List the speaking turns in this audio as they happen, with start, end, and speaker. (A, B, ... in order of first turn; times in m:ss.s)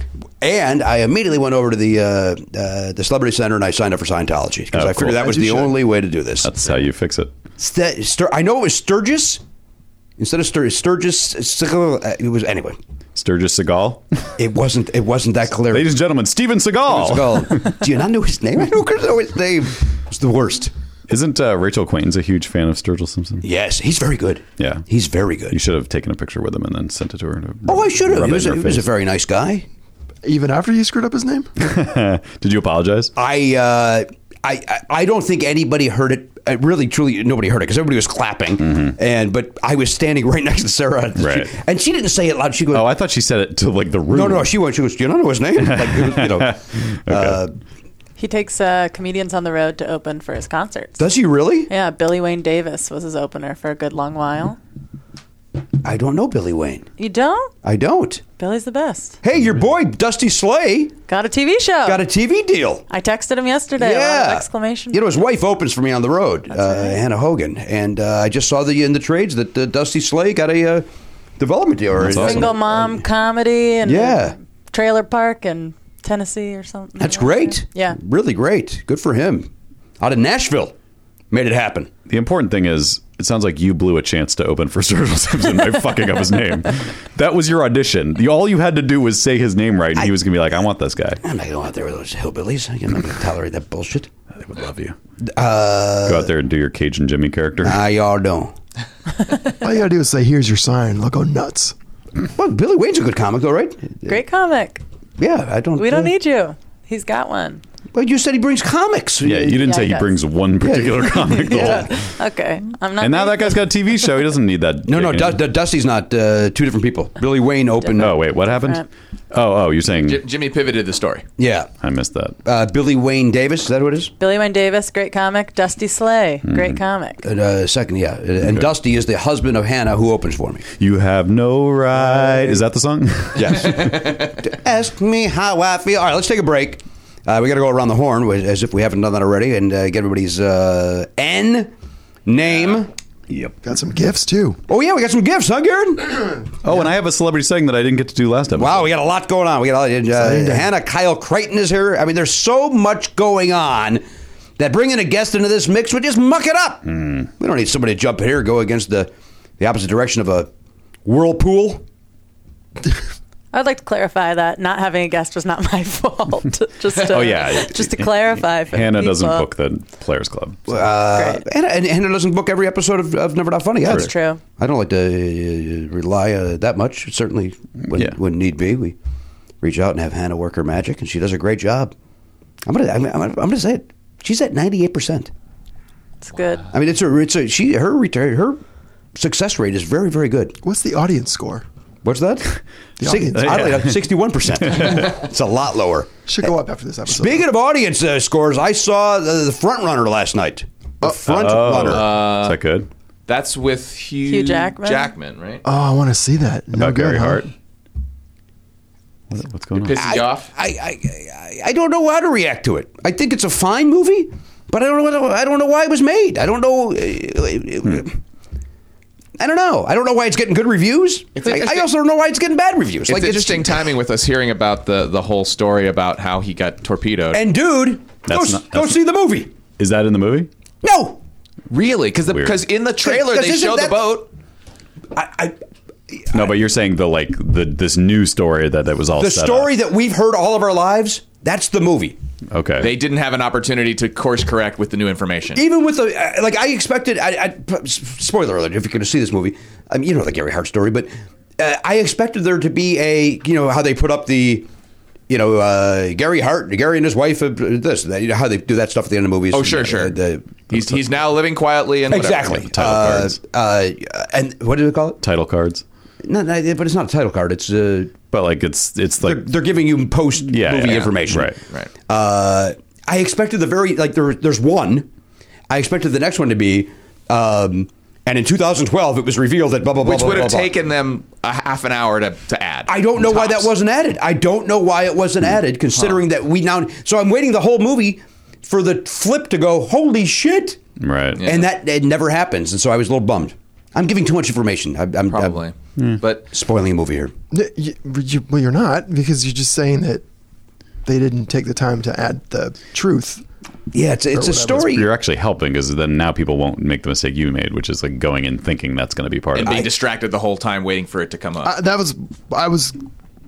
0:00.4-0:06.5 A
0:04.7-0:05.7 B
0:05.4-0:05.7 C
0:06.4-0:07.3 B
0:07.6-0:09.4 A
0:10.2-0:12.8 A
0:13.1-0:14.3 B
0:14.4-0:15.9 A
0:15.7-0:17.7 B
0:16.9-0:20.7 A
0:21.1-0:23.4 B
0:23.4-0:25.6 A
0:24.6-0:24.8 B
0:25.5-0:28.9 B
0:27.7-0:29.7 A
0:30.2-0:31.5 C
0:31.6-0:33.1 B
0:33.2-0:42.9 A
0:38.6-0:38.9 B
0:41.2-0:41.5 B
0:42.7-0:44.5 B
0:44.1-0:47.5 A
0:45.6-0:47.4 B
0:48.2-0:51.0 D
0:51.0-0:51.7 A
0:51.7-0:54.6 D
0:55.8-0:56.9 A
0:57.0-0:57.5 D
0:57.6-0:58.2 A
0:58.4-0:59.2 D
0:59.2-1:00.9 A
1:01.1-1:02.0 D
1:01.8-1:02.8 A
1:02.9-1:05.2 D
1:03.8-1:10.9 A
1:06.5-1:07.0 D
1:11.4-1:13.0 A
1:11.9-1:12.5 B
1:12.1-1:18.0 D
1:13.8-1:14.3 A
1:17.0-1:19.5 A
1:20.0-1:20.7 A
1:21.3-1:21.9 A
1:22.1-1:31.2 B
1:31.2-1:34.1 A
1:34.4-1:35.0 B
1:35.3-1:36.3 A
1:36.0-1:37.8 B
1:37.6-1:38.5 A
1:39.6-1:41.7 C
1:42.2-1:44.2 A
1:44.0-1:44.8 D
1:45.2-1:46.1 A
1:45.8-1:47.6 D
1:47.9-1:49.7 A
1:49.2-1:51.9 B
1:49.6-1:50.1 D
1:50.6-1:51.9 A
1:51.4-1:53.7 D
1:53.0-1:55.4 B
1:54.9-1:58.2 A
1:57.8-1:58.8 D
1:57.9-2:00.2 B
2:00.0-2:01.2 E
2:01.4-2:01.7 A
2:01.8-2:02.4 B
2:02.4-2:04.1 A
2:04.2-2:07.2 D
2:06.5-2:06.8 B
2:07.2-2:10.6 A
2:08.4-2:08.7 B
2:10.8-2:14.0 B
2:12.0-2:12.6 A
2:13.4-2:21.7 A
2:22.2-2:23.5 A
2:23.6-2:24.6 C
2:24.7-2:26.4 A
2:26.6-2:28.9 B
2:28.5-2:34.0 A
2:30.2-2:30.7 C
2:34.6-2:40.5 A
2:36.9-2:37.2 B
2:41.0-2:41.8 A
2:43.5-2:49.5 D
2:47.0-2:50.9 B
2:50.7-2:59.0 A
2:51.1-2:51.4 D
2:53.8-2:54.4 D
2:57.9-2:58.2 B
2:59.6-3:01.9 A
3:02.6-3:05.3 A
3:06.2-3:06.7 D
3:06.7-3:08.6 A
3:09.1-3:10.6 A
3:10.6-3:11.6 C
3:12.0-3:16.5 A
3:13.0-3:13.7 C
3:13.4-3:13.9 B
3:14.6-3:15.1 B
3:16.2-3:17.5 C
3:17.0-3:22.2 A
3:21.2-3:22.9 B
3:21.8-3:22.6 E
3:23.3-3:25.6 E
3:24.2-3:25.1 D
3:25.6-3:27.5 C
3:26.7-3:27.5 B
3:29.3-3:30.1 B
3:29.8-3:30.5 E
3:30.0-3:38.2 A
3:39.4-3:43.8 A
3:41.4-3:41.9 E
3:43.0-3:47.5 E
3:47.3-3:49.5 A
3:48.3-3:49.0 B
3:49.8-3:50.5 B
3:50.8-3:51.2 A
3:51.7-3:54.3 E
3:52.3-3:52.6 B
3:53.0-3:54.1 A
3:55.1-3:55.6 A
3:56.1-3:56.4 A
3:56.3-3:59.7 B
3:59.2-4:02.2 A
4:02.5-4:02.9 B
4:02.8-4:05.6 E
4:05.5-4:14.7 A
4:15.3-4:20.6 A
4:19.5-4:22.6 E
4:22.1-4:25.2 A
4:22.4-4:23.4 B
4:25.2-4:25.8 B
4:26.2-4:28.2 A
4:28.3-4:29.5 B
4:29.2-4:35.1 A
4:30.4-4:31.6 B
4:30.8-4:31.1 E
4:35.7-4:40.7 A
4:40.0-4:43.7 E
4:42.9-4:50.8 A
4:51.0-4:51.4 B
4:51.4-4:51.7 E
4:51.4-4:55.6 A
4:55.3-4:56.5 E
4:56.5-4:57.3 A
4:57.5-5:00.2 C
5:01.0-5:03.4 C
5:03.9-5:05.1 A
5:04.3-5:04.9 C
5:04.8-5:09.9 B
5:09.5-5:11.8 E
5:11.6-5:13.0 C